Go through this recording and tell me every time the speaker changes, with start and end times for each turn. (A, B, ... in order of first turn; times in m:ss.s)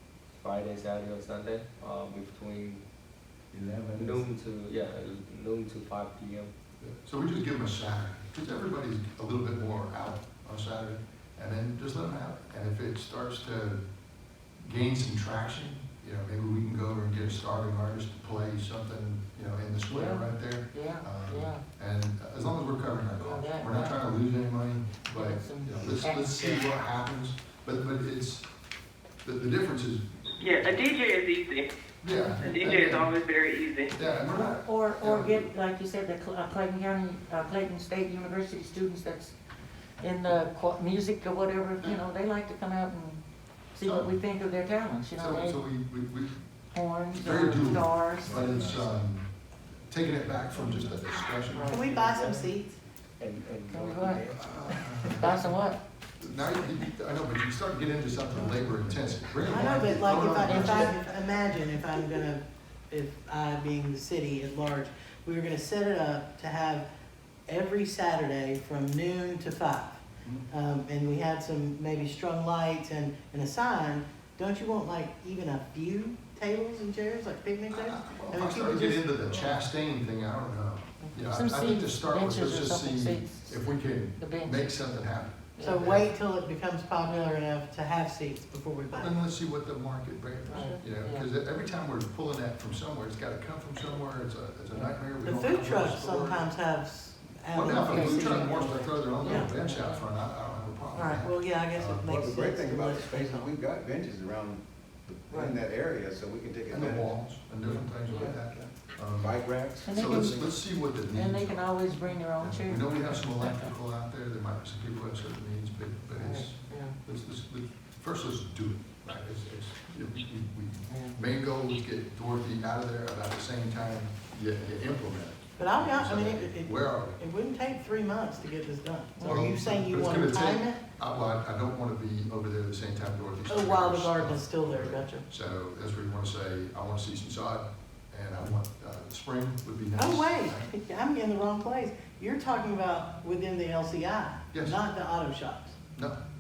0:00.4-0:02.8 A
0:03.5-0:04.3 B
0:04.0-0:06.5 A
0:06.8-0:13.8 C
0:14.6-0:28.5 C
0:19.9-0:21.6 D
0:23.1-0:24.0 D
0:25.1-0:26.7 D
0:29.2-0:30.9 C
0:30.4-0:31.7 E
0:32.0-0:33.2 C
0:32.3-0:32.7 D
0:32.4-0:33.9 E
0:33.9-0:35.5 C
0:34.0-0:39.4 D
0:40.0-0:43.2 D
0:43.7-0:45.6 D
0:43.8-0:44.2 C
0:45.2-0:46.4 C
0:46.7-0:48.7 D
0:47.1-0:49.3 C
0:48.2-0:49.0 B
0:49.9-0:51.8 C
0:51.5-0:51.8 D
0:51.6-0:52.8 F
0:51.7-0:52.6 A
0:53.2-0:54.8 A
0:53.7-0:55.8 D
0:54.3-0:55.6 C
0:56.2-1:01.0 C
0:59.4-1:06.9 F
1:00.4-1:01.0 D
1:07.5-1:19.6 F
1:17.7-1:26.1 C
1:21.2-1:24.8 D
1:25.6-1:26.0 D
1:25.6-1:29.2 F
1:27.0-1:27.4 D
1:29.0-1:36.5 C
1:30.5-1:31.3 D
1:35.2-1:39.5 F
1:37.5-1:42.1 C
1:37.7-1:40.1 D
1:40.9-1:43.5 F
1:42.1-1:47.1 B
1:45.3-1:45.6 D
1:46.7-1:49.3 C
1:48.1-1:48.7 D
1:49.1-1:50.4 B
1:49.8-1:53.7 D
1:49.9-1:51.8 C
1:52.4-2:07.2 C
1:56.2-1:57.0 D
2:00.9-2:01.2 D
2:05.6-2:10.8 F
2:09.2-2:09.5 D
2:09.2-2:20.7 C
2:13.5-2:15.2 F
2:20.0-2:25.8 F
2:24.5-2:24.8 C